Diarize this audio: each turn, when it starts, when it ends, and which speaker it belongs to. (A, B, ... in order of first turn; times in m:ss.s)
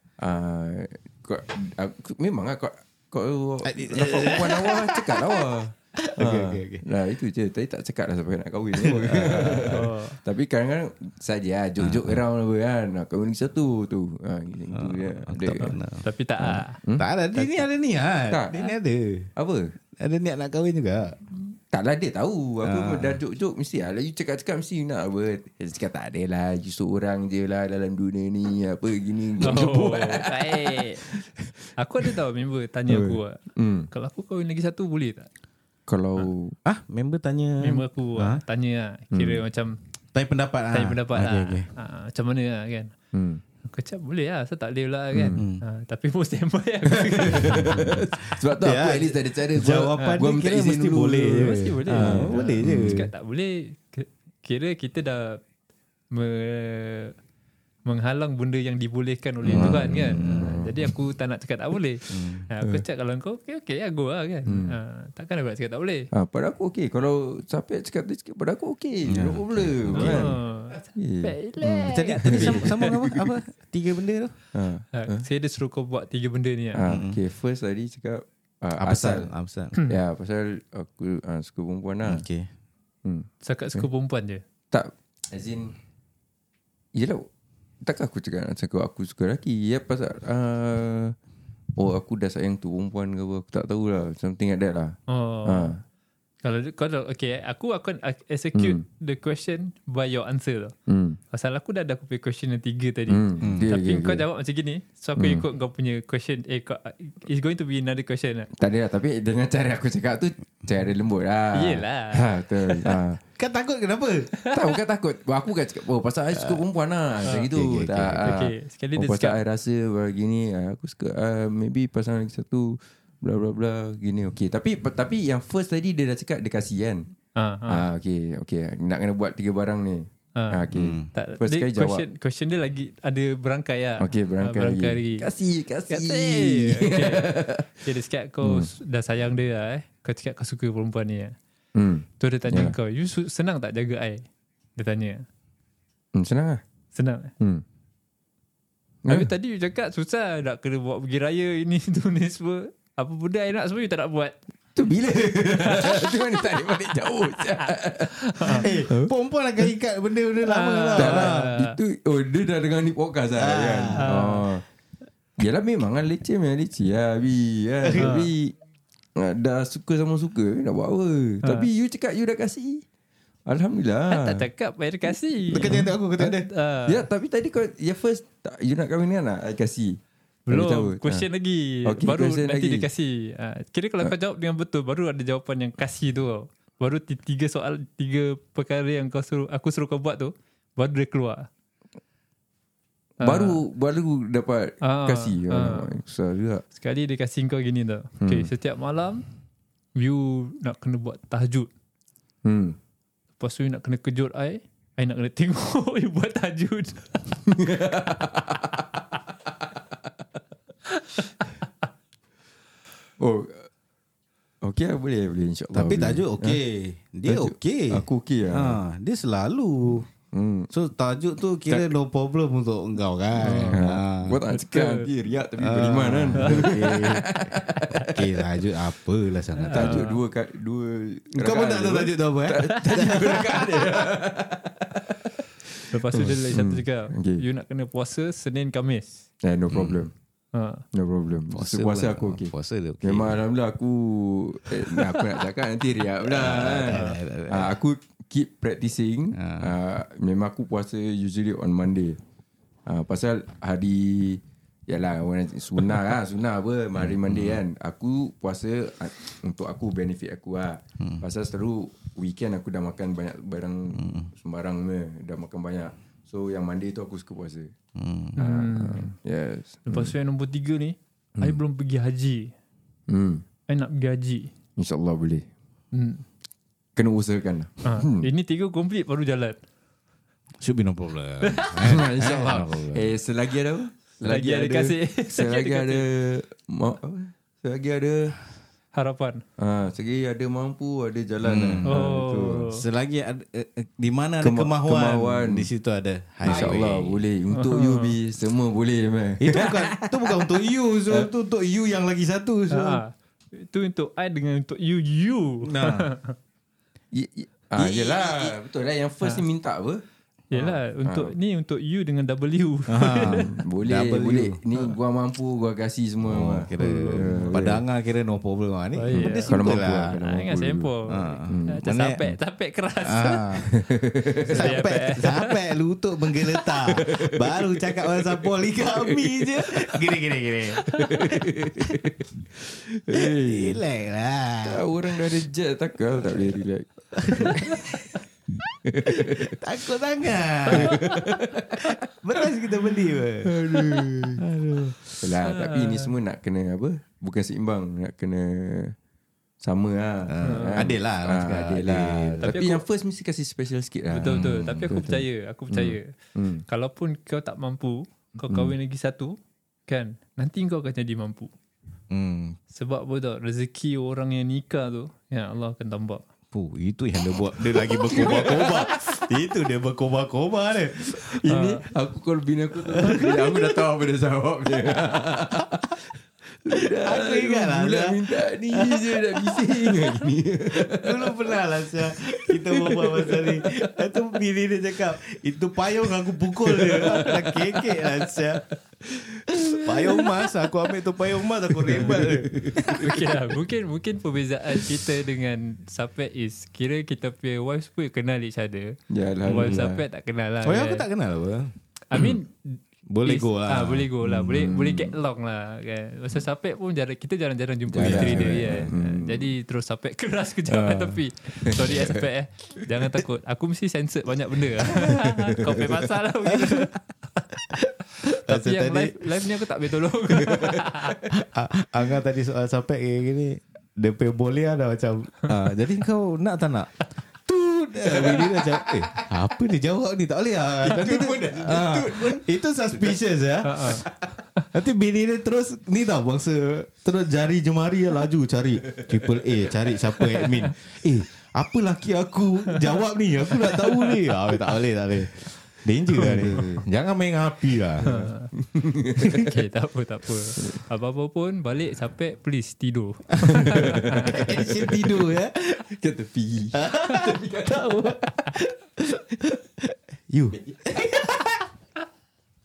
0:00.2-0:15.8 A
0:03.6-0:05.5 B
0:06.0-0:06.8 B
0:08.7-0:09.8 B
0:09.7-0:10.2 C
0:11.8-0:12.2 B
0:14.7-0:16.1 B
0:15.5-0:16.8 C
0:16.4-0:17.6 A
0:17.0-0:19.3 B
0:18.3-0:18.6 A
0:19.4-0:19.7 A
0:20.0-0:21.2 B
0:21.7-0:31.3 A
0:22.6-0:23.2 B
0:29.4-0:31.0 C
0:31.8-0:33.4 C
0:32.9-0:33.9 A
0:33.9-0:35.3 C
0:35.9-0:36.6 A
0:36.6-0:38.4 B
0:37.6-0:39.8 C
0:39.1-0:39.4 A
0:40.1-0:41.7 B
0:40.7-0:42.9 C
0:43.1-0:43.4 A
0:43.6-0:48.0 C
0:45.1-0:45.4 A
0:45.4-0:45.6 B
0:47.4-0:53.0 A
0:48.6-0:53.1 B
0:50.0-0:50.3 C
0:51.3-0:55.4 C
0:56.1-0:57.1 C
0:57.9-1:06.1 C
0:59.5-1:00.6 B
0:59.5-1:01.0 A
1:02.1-1:02.5 B
1:04.5-1:04.8 A
1:06.1-1:10.4 A
1:09.1-1:10.3 B
1:09.9-1:12.9 C
1:11.0-1:13.4 A
1:11.9-1:14.4 B
1:14.5-1:15.3 A
1:14.9-1:16.8 C
1:16.7-1:19.3 A
1:16.9-1:17.2 B
1:18.8-1:19.8 B
1:19.9-1:22.2 A
1:22.1-1:22.5 B
1:23.0-1:23.9 A
1:23.4-1:24.4 C
1:24.7-1:25.7 A
1:27.0-1:27.3 A
1:27.8-1:31.2 A
1:31.8-1:35.8 A
1:35.1-1:35.7 C
1:36.4-1:40.7 C
1:38.6-1:38.8 A
1:40.9-1:41.2 A
1:41.3-1:48.5 C
1:43.1-1:44.2 A
1:43.4-1:43.7 B
1:45.2-1:45.4 A
1:48.6-1:53.2 A
1:51.5-1:52.2 C
1:53.4-1:54.3 B
1:54.3-1:54.6 C
1:54.5-2:07.1 A
1:56.3-1:56.6 B
1:57.2-1:58.4 B
1:58.2-1:59.4 C
2:07.4-2:07.9 C
2:07.7-2:12.0 A
2:10.7-2:11.1 B
2:11.1-2:15.3 C
2:14.0-2:17.9 A
2:15.9-2:21.3 C
2:18.4-2:18.7 A
2:21.8-2:22.7 A
2:22.2-2:24.2 C
2:24.8-2:25.2 C
2:26.2-2:26.6 A
2:26.9-2:27.3 C
2:29.1-2:34.4 C
2:34.8-2:39.1 A
2:35.6-2:36.2 C
2:38.2-2:38.7 C
2:38.6-2:41.5 B
2:40.4-2:41.7 C
2:41.0-2:44.6 A
2:43.4-2:44.0 B
2:44.0-2:44.4 C
2:45.4-2:48.5 A
2:47.8-2:48.1 B
2:48.0-2:48.3 C
2:49.2-2:52.8 A
2:51.4-2:51.7 C
2:53.5-2:54.4 A
2:54.1-2:57.1 C
2:55.5-2:56.5 B
2:55.5-2:55.9 A
2:56.9-3:01.3 A
3:00.5-3:11.5 C
3:01.8-3:02.9 A
3:13.2-3:16.6 A
3:13.2-3:13.6 C
3:14.8-3:15.9 C
3:16.8-3:19.2 C
3:18.2-3:18.5 A
3:20.0-3:21.7 C
3:22.4-3:22.8 A
3:23.4-3:27.4 C
3:27.5-3:28.8 A
3:31.0-3:31.5 C
3:33.2-3:33.7 A
3:34.6-3:36.6 A
3:35.7-3:40.1 B
3:37.3-3:38.8 A
3:40.3-3:40.7 A
3:40.7-3:44.4 B
3:41.7-3:42.0 A
3:43.4-3:43.8 C
3:43.6-3:48.2 A
3:44.5-3:45.1 C
3:45.6-3:47.6 B
3:46.4-3:47.0 C
3:47.7-3:48.1 C
3:48.1-3:50.0 B
3:49.6-3:50.2 C
3:49.7-3:55.0 A
3:51.4-3:53.9 B
3:55.9-3:59.2 C
3:56.1-3:57.4 A
3:59.4-4:00.1 A
3:59.7-4:00.0 B
4:00.5-4:00.8 C
4:00.9-4:12.2 A
4:01.5-4:03.4 B
4:06.3-4:07.7 B
4:06.9-4:07.2 C
4:09.3-4:09.7 B
4:12.9-4:27.7 A
4:17.0-4:17.6 B
4:23.9-4:24.3 B
4:28.0-4:28.4 B
4:28.4-4:29.1 C
4:28.4-4:30.1 A
4:29.9-4:32.5 C
4:33.1-4:33.4 A
4:33.7-4:34.5 C
4:34.8-4:35.5 A
4:35.9-4:36.2 C
4:37.0-4:38.3 A
4:37.8-4:39.6 C
4:40.6-4:43.1 B
4:41.4-4:41.8 C
4:41.8-4:48.4 A
4:44.2-4:46.1 C
4:48.9-4:49.4 C
4:49.6-4:52.7 A
4:51.4-4:51.9 B
4:51.8-4:52.8 C
4:52.7-4:57.2 B
4:54.4-4:55.7 A
4:56.5-5:00.5 A
4:57.5-4:58.2 C
4:59.4-5:03.0 B
5:02.7-5:06.4 C
5:05.6-5:06.1 B
5:07.1-5:10.0 A
5:07.8-5:08.5 B
5:10.5-5:13.4 C
5:10.5-5:11.3 A
5:12.9-5:14.6 B
5:13.2-5:17.8 A
5:16.2-5:20.2 B
5:16.8-5:17.6 C
5:19.0-5:23.7 C
5:19.1-5:20.9 A
5:21.1-5:22.3 B
5:21.5-5:21.8 A
5:23.0-5:23.7 B
5:23.7-5:25.1 A
5:24.5-5:25.6 C
5:24.5-5:32.1 B
5:26.9-5:30.0 A
5:30.9-5:32.1 A
5:33.1-5:33.8 A
5:33.1-5:35.3 B
5:34.6-5:37.8 A
5:36.2-5:36.5 B
5:37.2-5:38.2 B
5:38.9-5:39.6 A
5:39.1-5:45.3 B
5:40.7-5:41.8 A
5:43.4-5:44.4 A
5:45.2-5:49.0 A
5:45.5-5:46.1 C
5:49.6-5:56.6 A
5:50.3-5:52.5 B
5:50.4-5:50.9 C
5:52.4-5:52.8 C
5:54.1-5:56.1 C
5:56.7-5:59.4 C
5:58.5-5:58.7 A
5:59.9-6:01.5 C
6:02.1-6:02.6 B
6:02.7-6:06.2 C
6:06.5-6:11.2 B
6:07.7-6:09.1 A
6:11.2-6:16.0 A
6:11.5-6:11.8 C
6:12.9-6:13.8 B
6:16.6-6:21.5 A
6:17.0-6:20.1 B
6:20.7-6:28.6 B
6:22.3-6:24.0 A
6:26.6-6:28.6 A
6:29.5-6:33.2 B
6:31.9-6:32.6 A
6:32.9-6:38.9 C
6:39.1-6:40.0 A
6:39.4-6:39.8 B
6:39.5-6:41.0 C
6:40.6-6:41.7 B
6:42.1-6:57.4 C
6:42.1-6:42.4 A
6:43.1-6:44.1 B
6:44.2-6:45.2 A
6:47.9-6:49.5 A
6:48.0-6:48.8 B
6:50.7-6:52.2 A
6:55.2-6:56.0 A
6:56.5-6:56.9 B
6:58.3-6:59.4 B
6:58.5-7:01.2 C
7:00.4-7:00.7 A
7:01.3-7:07.0 B
7:07.5-7:28.1 B
7:10.8-7:13.2 A
7:13.6-7:14.0 C
7:23.7-7:24.1 C
7:26.2-7:26.8 A
7:28.0-7:29.4 A
7:28.0-7:28.5 C
7:29.3-7:34.6 C
7:34.3-7:35.9 B
7:34.8-7:35.3 A
7:35.9-7:38.5 A
7:36.7-7:41.6 B